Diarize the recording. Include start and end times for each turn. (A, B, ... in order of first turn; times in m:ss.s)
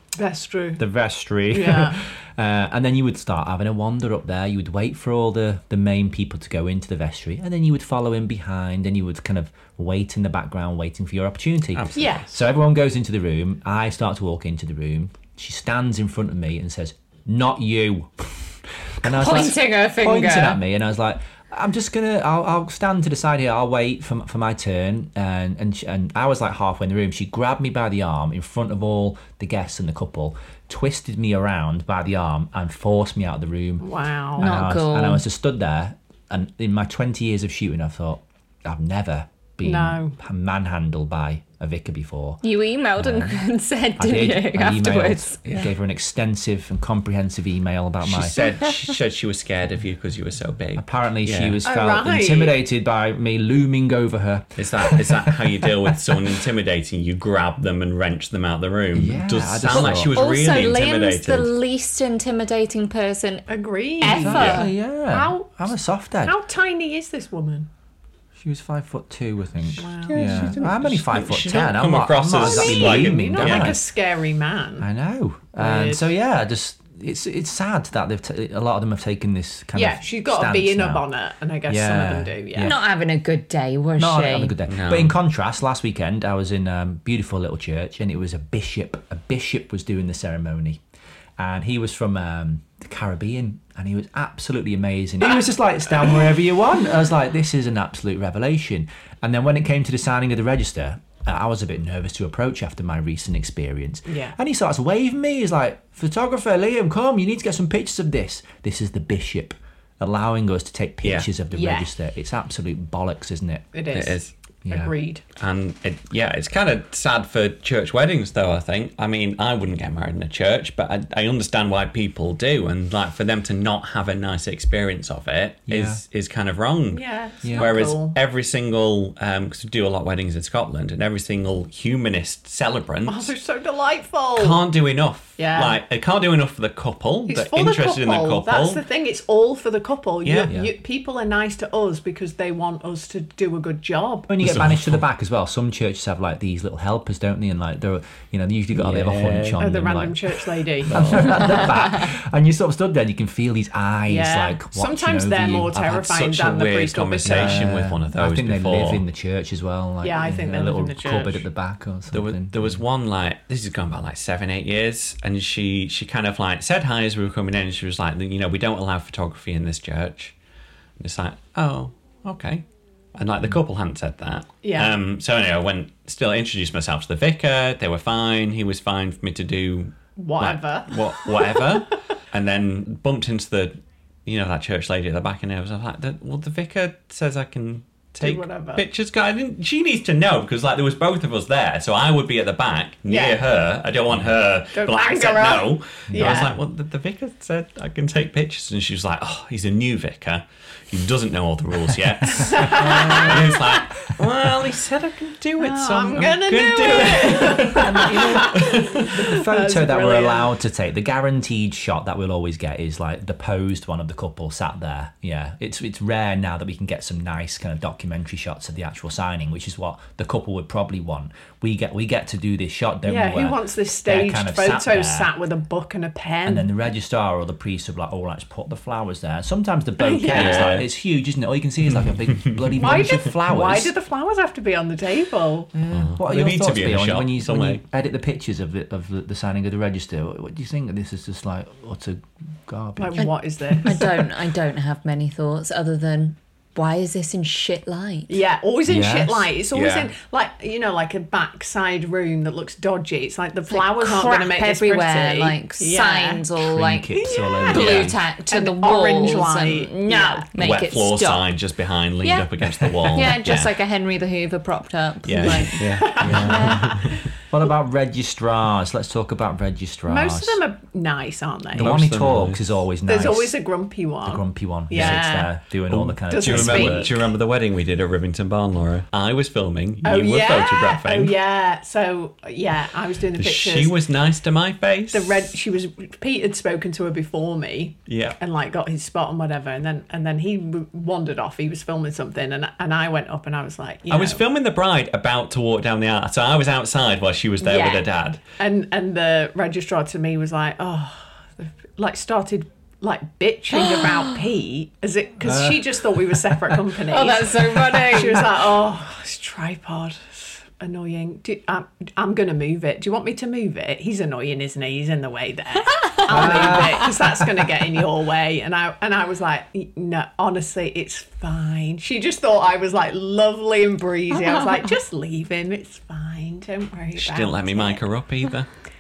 0:00.2-0:00.8 A
0:00.8-0:42.4 B
0:01.5-0:02.0 A
0:11.7-0:12.2 C
0:12.0-0:12.3 A
0:19.0-0:20.6 D
0:33.8-0:34.5 A
0:34.4-0:35.2 D
0:39.6-0:40.2 A
0:42.4-0:45.4 D
0:43.0-0:43.4 B
0:44.0-0:48.5 B
0:48.0-0:51.6 C
0:50.8-0:56.4 B
0:51.6-0:52.6 A
0:54.6-1:01.5 C
0:58.9-1:00.1 B
0:59.7-1:03.5 D
1:03.5-1:05.5 A
1:04.0-1:04.7 D
1:04.1-1:06.4 B
1:04.2-1:04.6 C
1:06.2-1:07.7 A
1:08.4-1:13.8 B
1:09.8-1:10.7 A
1:09.9-1:13.8 C
1:12.4-1:14.9 A
1:14.8-1:21.1 B
1:15.6-1:16.1 A
1:19.8-1:22.8 A
1:21.7-1:22.8 B
1:22.6-1:24.6 D
1:24.0-1:30.8 B
1:24.7-1:25.2 C
1:31.4-1:53.7 B
1:44.1-1:44.4 A
1:51.0-1:51.3 C
1:51.5-1:51.9 A
1:53.7-1:55.2 A
1:53.9-1:54.3 C
1:54.6-1:54.9 B
1:55.4-2:13.3 C
2:05.7-2:06.0 B
2:06.9-2:08.2 A
2:07.4-2:07.7 B
2:13.1-2:14.6 A
2:14.4-2:18.8 C
2:15.4-2:15.8 A
2:17.3-2:24.3 A
2:20.2-2:20.5 C
2:20.5-2:20.7 B
2:24.3-2:35.7 B
2:24.4-2:25.0 C
2:28.7-2:29.6 C
2:29.6-2:31.7 A
2:30.9-2:31.4 C
2:34.1-2:37.6 A
2:35.7-2:39.0 C
2:37.2-2:42.8 B
2:40.0-2:41.4 A
2:42.1-2:50.3 C
2:51.0-2:52.6 C
2:53.2-3:29.1 C
2:54.6-2:54.9 A
3:00.2-3:01.8 A
3:08.2-3:08.8 A
3:13.1-3:13.4 A
3:14.7-3:16.5 A
3:16.1-3:16.5 B
3:22.4-3:23.5 B
3:22.4-3:23.7 A
3:25.6-3:30.5 A
3:27.7-3:45.3 B
3:43.0-3:46.7 A
3:46.4-3:53.9 B
3:50.0-3:50.8 A
3:50.3-3:50.9 C
3:51.9-3:53.0 C
3:52.8-3:55.7 A
3:55.7-4:04.0 B
3:55.9-3:57.8 C
4:03.0-4:04.1 A
4:03.2-4:08.4 D
4:08.3-4:16.5 A
4:08.9-4:09.5 B
4:09.7-4:10.1 C
4:13.7-4:21.5 D
4:16.6-4:18.2 B
4:17.2-4:20.4 A
4:17.8-4:18.1 C
4:20.6-4:23.7 C
4:22.2-4:27.0 D
4:25.3-4:27.2 C
4:25.4-4:27.0 A
4:26.2-4:26.8 B
4:27.5-4:30.6 B
4:30.1-4:31.9 A
4:31.7-4:32.6 C
4:31.8-4:33.6 B
4:33.1-4:35.5 A
4:34.2-4:37.1 B
4:34.9-4:35.2 C
4:35.9-4:41.4 C
4:36.3-4:37.3 A
4:40.0-4:44.0 A
4:43.4-4:45.5 C
4:45.1-4:54.4 A
4:48.1-4:48.4 C
4:54.1-4:58.4 C
4:57.6-4:58.0 A
4:58.6-5:28.0 A
5:03.7-5:04.4 D
5:05.4-5:06.8 B
5:07.1-5:08.6 D
5:16.2-5:16.9 D
5:16.3-5:17.4 B
5:27.2-5:28.7 C